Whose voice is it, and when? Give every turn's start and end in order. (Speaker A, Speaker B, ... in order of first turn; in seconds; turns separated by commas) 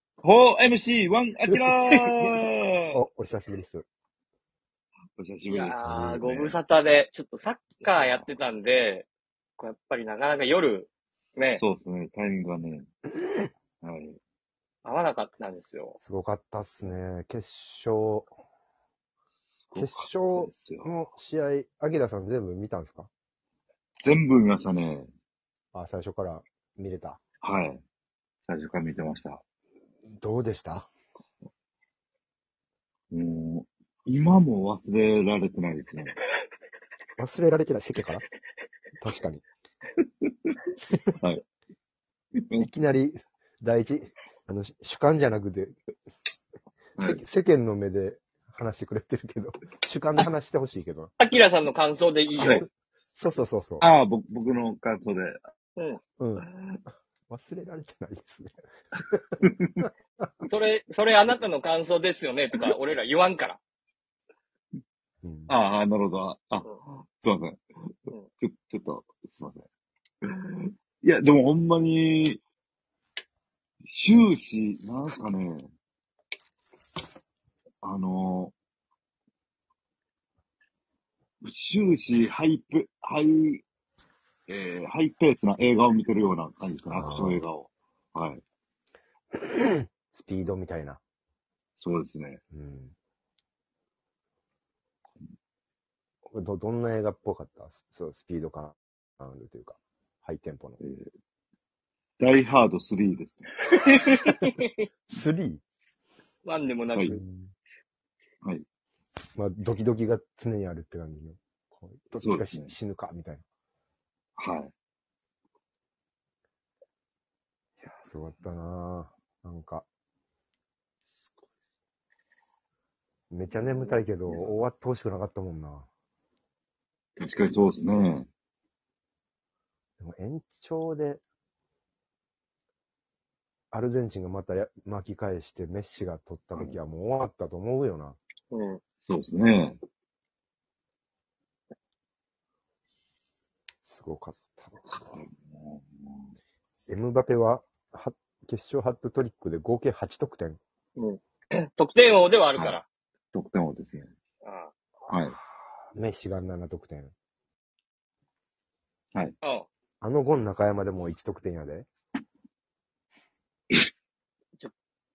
Speaker A: 0.2-2.4, Speaker B: 1.9-2.4, Speaker C: 2.9-3.9, Speaker A: 5.2-6.5, Speaker B: 5.5-9.1, Speaker C: 5.8-6.2, Speaker A: 7.8-8.3, Speaker B: 9.6-11.6, Speaker A: 11.6-12.9, Speaker A: 13.8-14.2, Speaker B: 14.8-16.0, Speaker C: 16.0-18.3, Speaker A: 19.7-20.9, Speaker C: 19.8-23.1, Speaker A: 24.0-25.1, Speaker C: 25.7-27.2, Speaker A: 27.4-27.8, Speaker A: 28.5-29.4, Speaker C: 30.2-30.9, Speaker A: 33.1-36.2, Speaker C: 37.2-38.2, Speaker C: 39.0-39.4, Speaker A: 40.2-40.6, Speaker C: 40.9-41.1, Speaker A: 42.4-42.7, Speaker C: 42.5-45.8, Speaker C: 47.0-51.1, Speaker B: 51.2-52.6, Speaker A: 52.4-52.6, Speaker C: 52.5-53.9, Speaker A: 53.8-55.4, Speaker C: 56.2-56.5, Speaker C: 57.3-60.5, Speaker A: 59.4-59.9, Speaker B: 60.4-63.6, Speaker C: 65.2-65.5, Speaker A: 65.5-69.7, Speaker A: 70.3-72.4, Speaker A: 73.8-75.7, Speaker A: 77.8-78.5, Speaker A: 81.4-83.6, Speaker A: 84.5-88.4, Speaker C: 86.9-87.4, Speaker C: 89.3-91.0, Speaker A: 91.8-92.4, Speaker C: 92.5-92.9, Speaker C: 96.3-100.8, Speaker A: 100.8-101.1, Speaker A: 102.2-103.5, Speaker B: 103.7-104.9, Speaker C: 105.1-105.6, Speaker B: 106.4-107.2, Speaker C: 107.1-107.5, Speaker C: 109.3-113.4, Speaker A: 112.2-112.7, Speaker A: 114.4-114.7, Speaker C: 117.8-119.8, Speaker C: 123.3-125.9, Speaker A: 123.5-124.6, Speaker A: 127.2-128.3, Speaker C: 130.0-131.2, Speaker C: 133.7-138.2, Speaker B: 138.5-138.8, Speaker A: 139.0-139.8, Speaker C: 143.8-145.2, Speaker A: 144.9-146.3, Speaker C: 146.9-150.6, Speaker B: 150.9-152.8, Speaker A: 153.3-154.1, Speaker B: 154.4-154.7, Speaker A: 155.1-155.4, Speaker C: 155.9-157.1, Speaker C: 160.0-161.9